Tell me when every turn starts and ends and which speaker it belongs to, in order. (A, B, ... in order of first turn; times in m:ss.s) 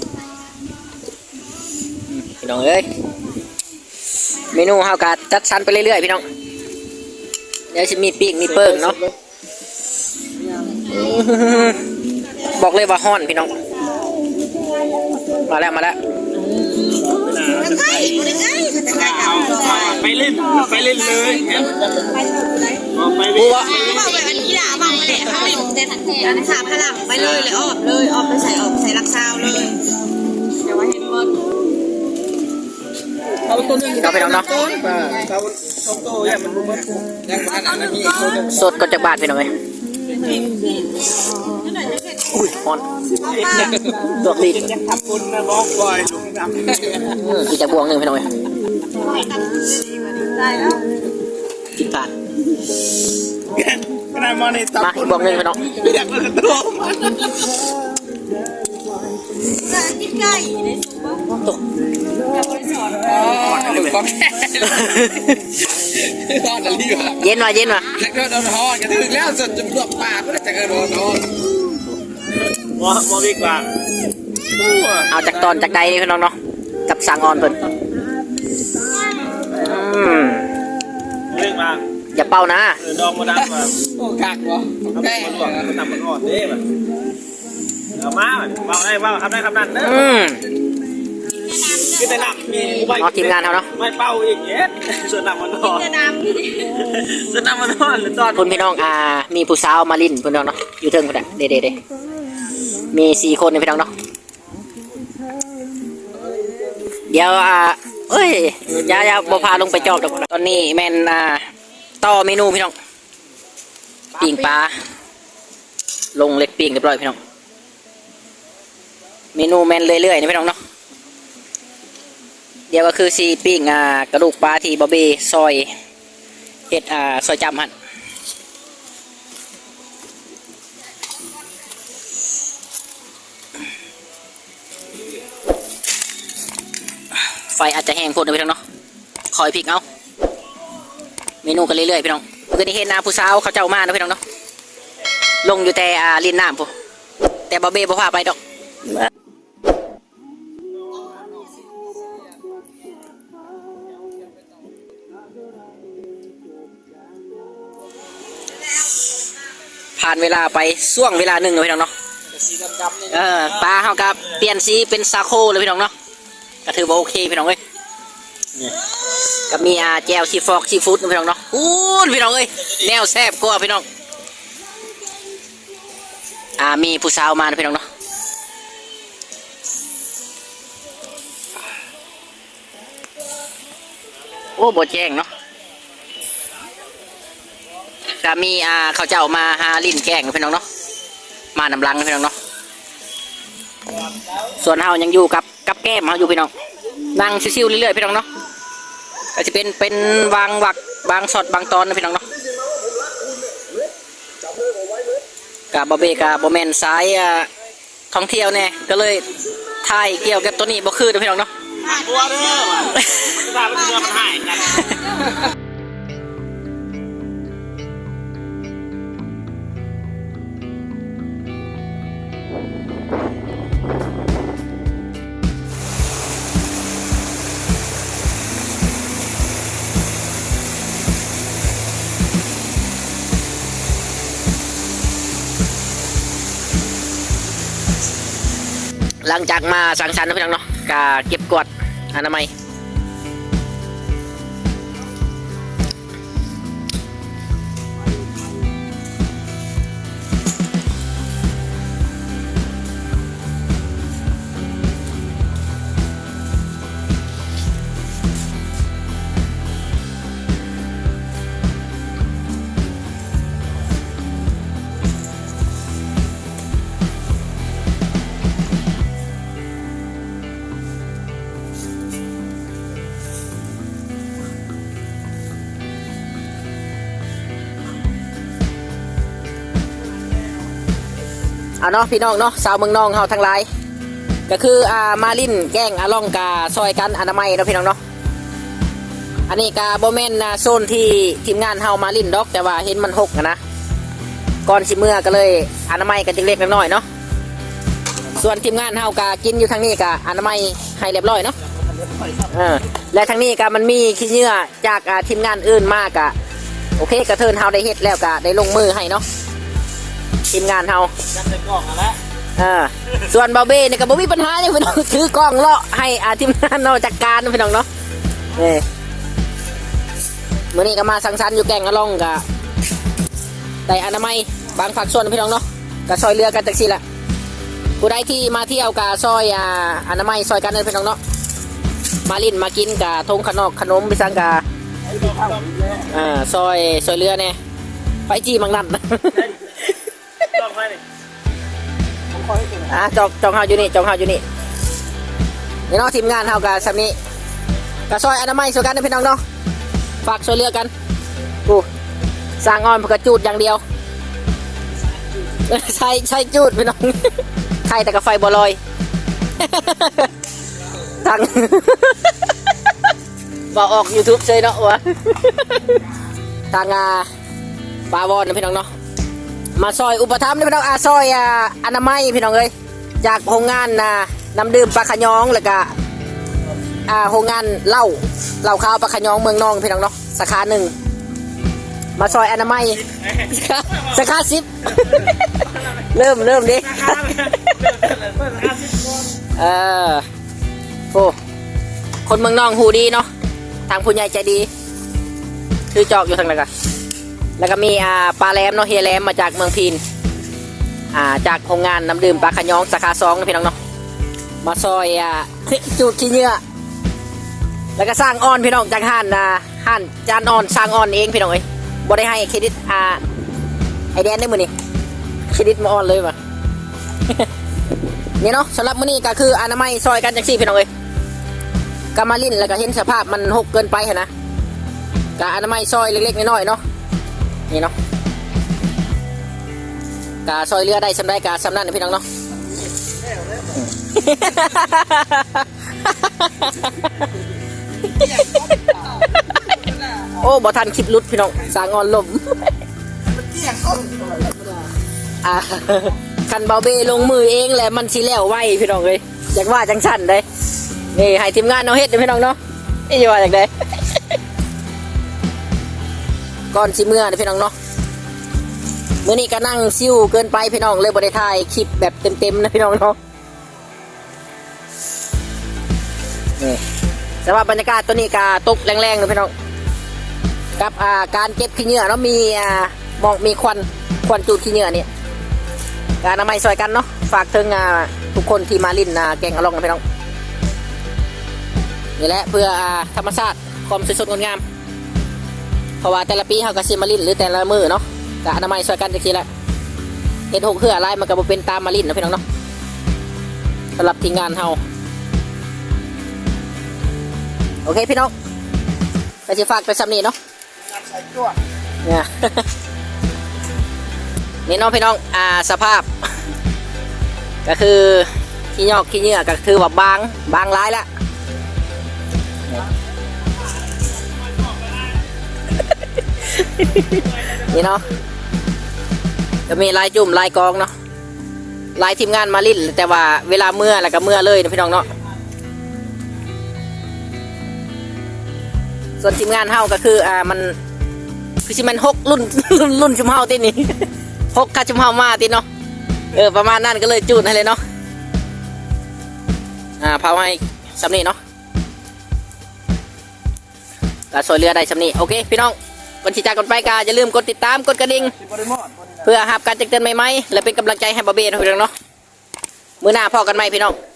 0:02.1-0:02.9 A
0:04.5-0:06.2 A
0:07.7-0:09.0 A
0:10.8-0:11.8 A
0:12.5-0:13.6 A
0:15.4-0:16.0 A
0:17.0-0:18.3 B
0:17.5-0:21.1 C
0:18.9-0:22.3 B
0:22.2-0:22.9 C
0:22.9-0:24.2 B
0:23.3-0:24.0 A
0:23.7-0:29.8 C
0:27.2-0:27.5 A
0:30.5-0:31.6 C
0:33.5-0:35.2 D
0:33.6-0:35.3 C
0:34.0-0:34.6 A
0:35.1-0:37.2 B
0:37.2-0:38.5 D
0:37.4-0:38.6 C
0:38.5-0:39.6 A
0:40.1-0:42.3 C
0:42.3-0:42.9 A
0:43.2-0:43.8 C
0:43.6-0:44.7 A
0:44.4-0:47.1 B
0:47.1-0:48.3 A
0:49.0-0:50.9 C
0:51.7-0:52.1 A
0:53.6-0:54.8 B
0:54.8-0:55.7 A
0:55.7-0:57.1 B
0:59.5-1:01.3 C
1:02.2-1:03.8 C
1:03.0-1:07.2 D
1:04.8-1:05.4 A
1:07.2-1:07.9 A
1:07.9-1:11.4 D
1:12.6-1:13.7 B
1:14.6-1:15.0 D
1:15.1-1:16.4 A
1:16.9-1:17.6 A
1:19.5-1:20.5 A
1:21.3-1:21.8 B
1:22.1-1:22.8 A
1:22.8-1:23.8 B
1:23.8-1:25.8 D
1:24.9-1:26.6 B
1:28.0-1:30.2 B
1:29.8-1:30.5 A
1:31.4-1:32.1 C
1:31.8-1:38.6 B
1:33.0-1:33.7 A
1:35.6-1:36.7 C
1:38.3-1:41.8 A
1:42.9-1:43.9 A
1:47.1-1:51.5 A
1:52.0-1:52.7 A
1:54.2-1:54.8 A
1:56.2-1:57.2 A
1:59.4-2:00.6 A
2:02.7-2:05.7 A
2:06.7-2:07.7 A
2:17.4-2:18.6 A
2:19.3-2:19.8 A
2:21.4-2:24.2 A
2:25.4-2:26.7 A
2:27.5-2:28.4 A
2:40.0-2:41.9 A
2:42.5-2:42.9 D
2:43.0-2:45.9 A
2:46.6-2:47.6 A
2:49.5-2:53.9 A
2:56.6-2:57.9 A
3:04.6-3:05.3 A
3:08.2-3:10.6 A
3:11.6-3:12.3 A
3:14.6-3:16.5 A
3:17.1-3:18.3 A
3:19.4-3:22.2 A
3:25.7-3:27.5 A
3:28.1-3:29.3 A
3:29.8-3:31.5 A
3:31.8-3:34.9 B
3:32.0-3:32.8 C
3:59.2-4:02.5 A
4:41.8-4:43.7 A
4:44.5-4:48.0 A
4:49.5-4:53.6 A
4:54.7-4:57.0 A
4:58.3-5:01.6 A
5:01.8-5:02.5 B
5:02.5-5:06.4 A
5:07.0-5:09.2 A
5:10.5-5:11.1 A
5:11.3-5:12.2 B
5:12.6-5:17.9 A
5:18.5-5:18.8 A
5:20.7-5:22.4 A
5:23.9-5:27.0 A
5:28.0-5:31.2 A
5:32.3-5:34.6 A
5:35.0-5:36.1 B
5:36.1-5:37.6 A
5:38.3-5:39.4 A
5:39.4-5:39.9 B
5:40.4-5:41.0 B
5:42.4-5:42.8 B
5:42.9-5:44.4 A
5:45.9-5:47.2 A
5:48.1-5:49.4 A
5:50.2-5:50.9 A
5:52.6-5:53.8 A
5:55.6-5:58.8 A
5:59.6-6:00.3 A
6:01.2-6:02.4 A
6:03.7-6:06.0 A
6:06.7-6:07.3 A
6:08.1-6:08.9 A
6:09.8-6:15.9 A
6:17.1-6:20.9 A
6:22.2-6:27.9 A
6:27.0-6:29.3 B
6:29.6-6:30.2 A
6:32.3-6:33.3 A
6:33.9-6:34.7 A
6:35.9-6:36.7 A
6:37.6-6:40.0 A
6:41.1-6:43.8 A
6:44.6-6:46.6 A
6:48.0-6:53.2 A
6:54.1-6:54.7 A
6:55.5-6:56.4 A
6:58.4-7:00.9 A
7:02.2-7:04.3 A
7:05.4-7:06.8 A
7:10.4-7:12.2 A
7:13.8-7:17.2 A
7:18.0-7:19.0 A
7:20.2-7:22.7 A
7:23.5-7:24.8 B
7:25.4-7:30.4 A
7:31.1-7:34.2 A
7:36.7-7:37.7 A
7:39.2-7:43.2 A
7:47.4-7:49.5 A
7:50.8-7:55.1 A
7:56.2-8:00.0 A
8:02.2-8:04.6 A
8:06.0-8:09.5 A
8:10.5-8:12.4 A
8:14.0-8:14.8 A
8:17.8-8:18.3 A
8:19.5-8:20.4 A
8:21.0-8:21.6 B
8:22.0-8:22.7 A
8:24.7-8:26.1 A
8:27.6-8:31.1 A
8:34.6-8:35.1 B
8:35.7-8:38.1 A
8:39.7-8:40.9 A
8:42.0-8:45.1 A
8:49.2-8:50.8 A
8:51.6-8:55.7 A
8:56.3-8:57.8 A
9:00.0-9:01.4 A
9:04.3-9:08.3 A
9:08.5-9:09.1 B
9:09.2-9:11.9 A
9:13.0-9:14.0 A